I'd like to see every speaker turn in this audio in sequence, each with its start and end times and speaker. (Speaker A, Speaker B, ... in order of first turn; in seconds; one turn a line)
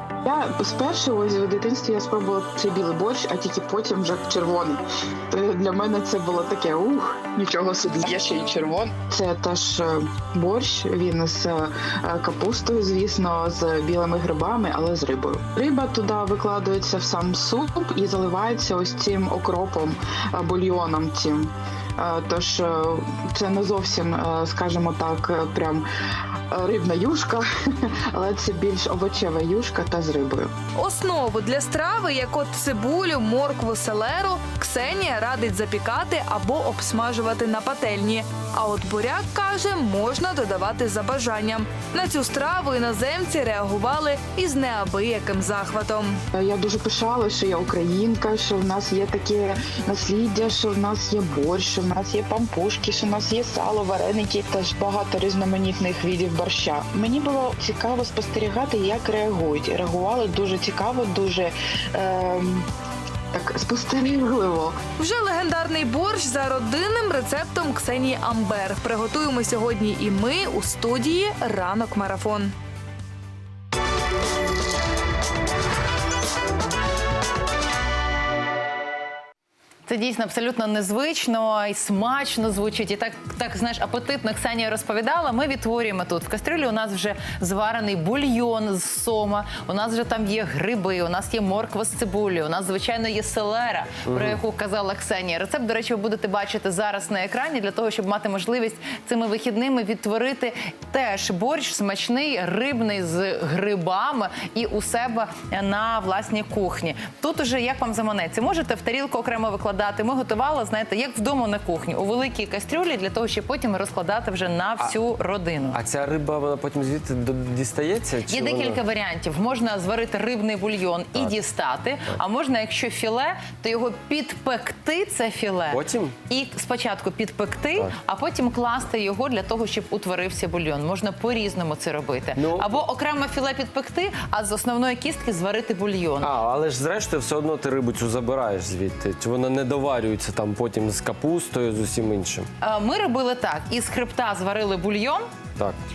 Speaker A: 0.2-25.8
Speaker A: 26.5-27.5
Speaker A: 28.1-30.5
Speaker B: 30.7-46.2
Speaker A: 46.3-62.6
Speaker A: 63.3-64.8
Speaker B: 65.0-72.5
Speaker C: 79.9-115.8
Speaker D: 94.1-94.4
Speaker D: 115.7-118.8
Speaker C: 118.3-125.8
Speaker D: 125.7-126.2
Speaker C: 126.3-136.3
Speaker D: 132.3-132.8
Speaker D: 136.2-142.5
Speaker C: 142.6-145.3